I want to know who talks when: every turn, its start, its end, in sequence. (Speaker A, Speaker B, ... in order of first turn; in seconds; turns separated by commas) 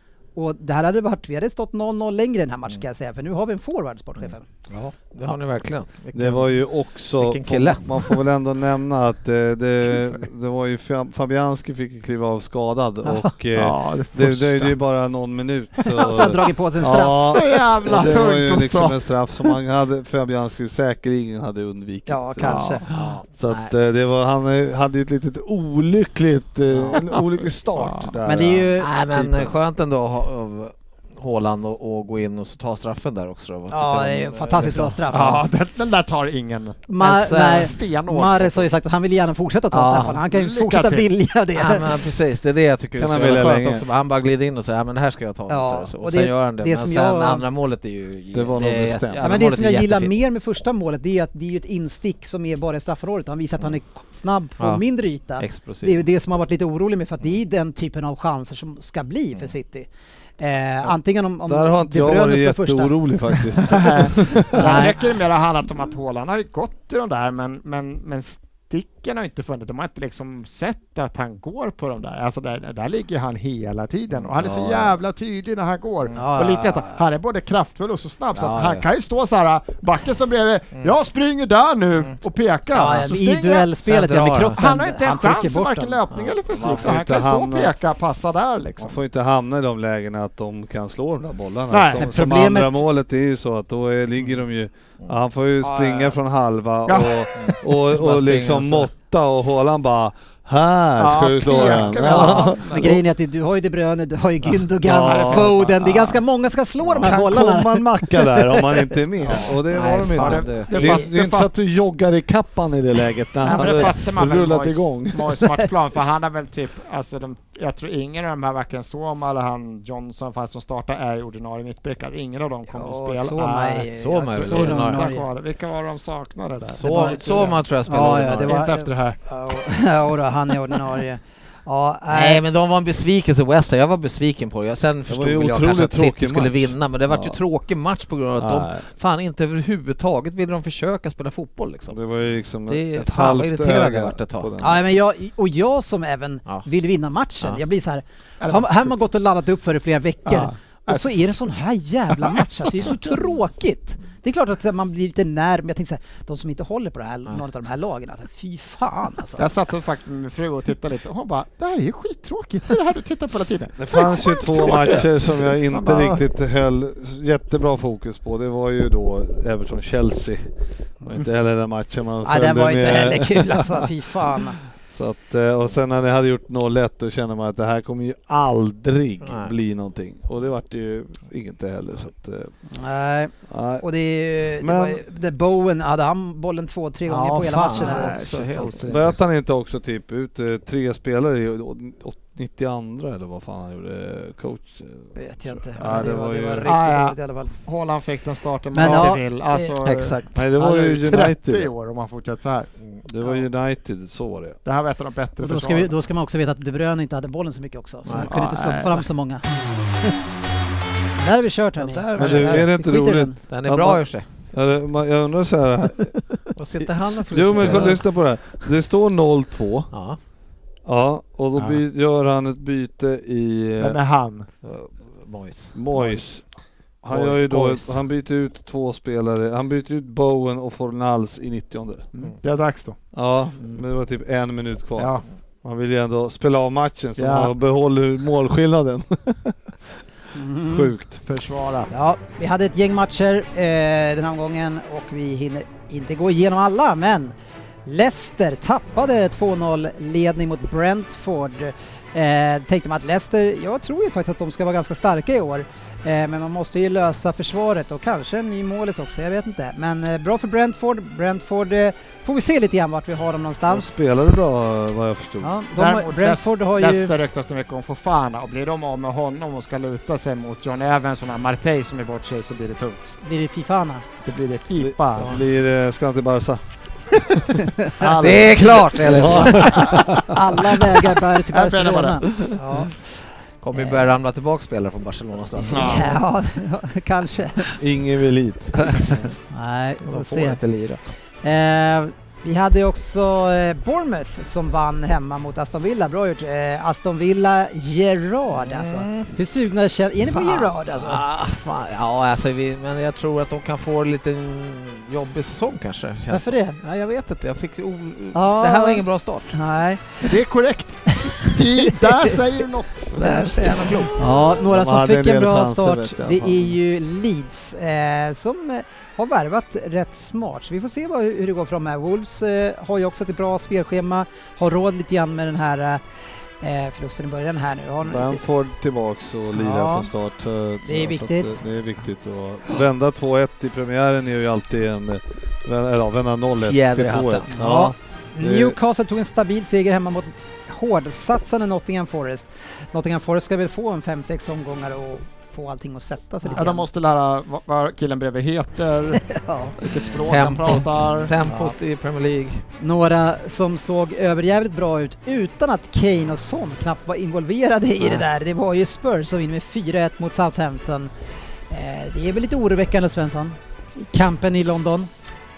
Speaker A: 0.4-4.4, Speaker B: 4.7-6.6, Speaker C: 6.1-29.5, Speaker B: 7.2-8.2, Speaker A: 13.1-13.3, Speaker D: 13.6-14.8, Speaker A: 15.9-17.4, Speaker D: 17.0-19.0, Speaker A: 22.1-22.9, Speaker D: 22.4-22.9, Speaker B: 22.9-23.7, Speaker D: 27.8-28.1, Speaker A: 28.2-28.9, Speaker B: 28.8-35.4, Speaker A: 33.7-35.4, Speaker D: 35.1-38.7, Speaker A: 36.9-41.9, Speaker B: 37.0-37.8, Speaker D: 39.8-41.1, Speaker B: 41.6-50.1, Speaker C: 43.0-43.9, Speaker A: 45.5-47.5, Speaker C: 48.3-49.4, Speaker A: 49.2-59.9, Speaker B: 55.4-56.0, Speaker A: 60.4-63.6, Speaker C: 61.5-64.9, Speaker D: 63.7-83.7, Speaker A: 64.5-65.0, Speaker B: 74.2-75.0, Speaker A: 76.2-77.0, Speaker B: 78.3-78.9, Speaker A: 82.7-86.0, Speaker B: 83.8-84.6, Speaker D: 84.6-89.0, Speaker C: 86.5-87.7, Speaker C: 88.8-103.0, Speaker D: 91.7-92.1, Speaker A: 92.0-92.8, Speaker D: 96.9-97.2, Speaker B: 97.4-98.9, Speaker D: 101.0-103.0, Speaker A: 101.7-108.9, Speaker C: 104.8-105.5, Speaker D: 105.0-106.2, Speaker C: 107.0-115.4, Speaker B: 109.7-111.0, Speaker D: 110.1-111.5, Speaker D: 113.4-127.6, Speaker A: 122.7-125.3, Speaker B: 124.0-125.1, Speaker B: 126.7-128.6, Speaker A: 126.8-132.4, Speaker D: 128.4-129.2, Speaker B: 132.1-142.0, Speaker C: 135.1-137.4, Speaker C: 138.4-138.8, Speaker C: 141.9-144.8, Speaker B: 142.7-144.5, Speaker A: 144.6-159.5, Speaker D: 148.4-148.9, Speaker D: 150.3-151.3, Speaker D: 152.1-152.9, Speaker D: 159.4-166.2, Speaker C: 163.8-170.5, Speaker C: 171.0-182.5, Speaker A: 172.2-174.6, Speaker B: 179.2-179.5, Speaker A: 182.7-188.2, Speaker C: 183.5-183.8, Speaker C: 184.6-185.0, Speaker B: 187.1-189.0, Speaker D: 187.7-189.1, Speaker C: 188.8-196.7, Speaker A: 195.2-197.6, Speaker D: 196.6-202.7, Speaker A: 198.7-199.8, Speaker B: 199.8-200.4, Speaker C: 200.3-201.7, Speaker C: 203.1-204.6, Speaker D: 204.7-205.9, Speaker A: 205.4-209.5, Speaker B: 208.1-208.3, Speaker D: 208.1-209.0, Speaker A: 211.2-213.4, Speaker B: 211.8-212.7, Speaker C: 212.2-216.2, Speaker B: 213.5-214.2, Speaker B: 216.6-218.1, Speaker C: 216.8-219.9, Speaker B: 219.9-220.2, Speaker C: 220.8-224.0, Speaker D: 223.8-224.5, Speaker B: 224.6-225.8, Speaker C: 225.7-226.4, Speaker C: 227.0-232.1, Speaker D: 227.1-227.8, Speaker B: 227.4-227.9, Speaker D: 232.1-233.0, Speaker C: 233.1-239.6, Speaker D: 235.0-235.2, Speaker D: 237.2-237.5, Speaker A: 240.3-240.9, Speaker C: 240.7-241.2, Speaker D: 241.2-241.9, Speaker A: 241.9-247.3, Speaker A: 247.9-264.0, Speaker C: 263.7-265.5, Speaker A: 265.4-267.1, Speaker D: 265.8-273.1, Speaker A: 273.2-274.1, Speaker D: 274.2-275.4, Speaker C: 274.8-276.6, Speaker C: 277.1-277.4, Speaker A: 277.6-277.9, Speaker D: 278.0-280.1, Speaker C: 278.1-278.4, Speaker B: 278.2-280.1, Speaker C: 279.0-280.2, Speaker A: 279.6-283.0, Speaker D: 281.5-282.4, Speaker B: 283.6-286.2, Speaker A: 283.7-284.1, Speaker A: 285.6-287.8, Speaker D: 285.6-286.2, Speaker C: 287.8-289.1, Speaker B: 288.8-289.1, Speaker A: 289.5-290.6, Speaker B: 290.0-291.1, Speaker A: 291.4-301.2, Speaker B: 298.6-299.3, Speaker B: 300.3-309.6, Speaker A: 306.3-306.8, Speaker A: 308.3-310.4, Speaker D: 310.2-313.9, Speaker B: 313.1-314.2, Speaker A: 314.1-326.0, Speaker C: 314.6-316.8, Speaker A: 326.6-328.4, Speaker C: 328.0-338.8, Speaker A: 329.5-330.1, Speaker A: 330.9-331.6, Speaker B: 336.6-337.5, Speaker A: 337.5-346.9, Speaker D: 346.5-351.7, Speaker A: 349.2-349.8, Speaker B: 350.3-352.6, Speaker A: 352.8-361.1, Speaker A: 361.7-365.1